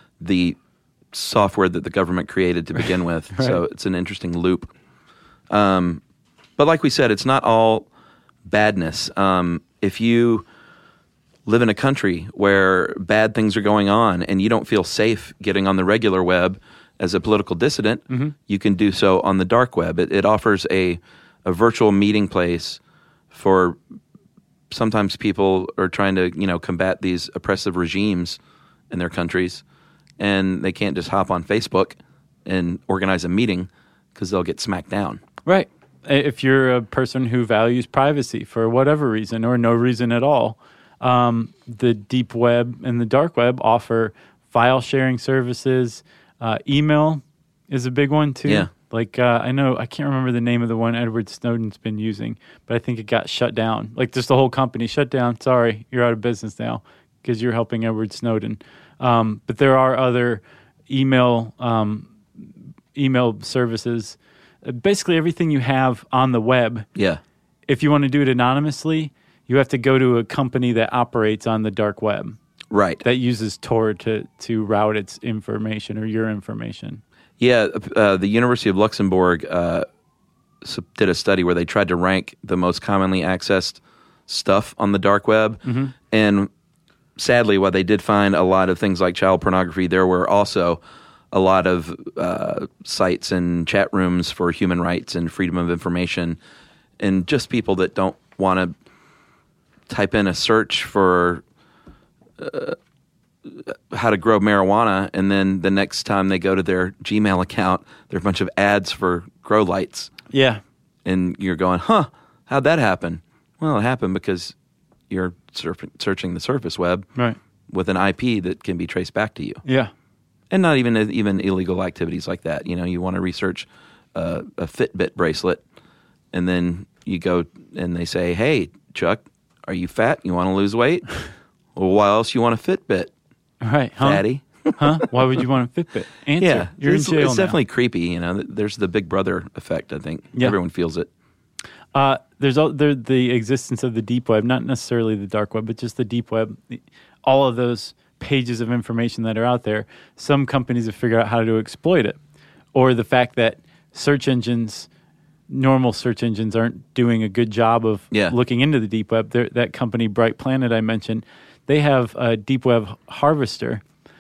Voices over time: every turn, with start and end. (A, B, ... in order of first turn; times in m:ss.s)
0:00.2-0:00.6 A
0:01.1-0:04.7 A
0:03.3-0:03.6 B
0:05.5-0:06.0 A
0:06.6-0:07.9 A
0:08.5-0:10.4 A
0:11.4-0:22.8 A
0:23.3-0:23.8 A
0:24.7-0:28.4 A
0:28.9-0:29.6 A
0:30.2-0:35.2 A
0:35.4-1:06.9 B
1:07.7-1:12.4 B
1:12.7-1:13.0 A
1:13.0-1:17.0 B
1:17.4-1:19.8 A
1:20.6-1:26.5 A
1:25.6-1:25.9 B
1:27.2-1:36.4 A
1:37.0-1:38.7 A
1:39.9-1:41.4 A
1:42.4-1:42.8 A
1:43.4-1:50.1 A
1:50.3-1:50.6 B
1:51.0-1:54.5 A
1:55.1-1:57.1 A
1:57.7-1:59.6 A
1:59.6-1:59.9 B
2:00.5-2:05.6 A
2:06.3-2:11.1 A
2:11.7-2:13.1 A
2:13.6-2:14.2 B
2:14.0-2:15.0 A
2:14.8-2:17.6 B
2:16.4-2:21.1 A
2:21.9-2:32.2 B
2:32.7-2:34.9 B
2:35.5-2:43.8 B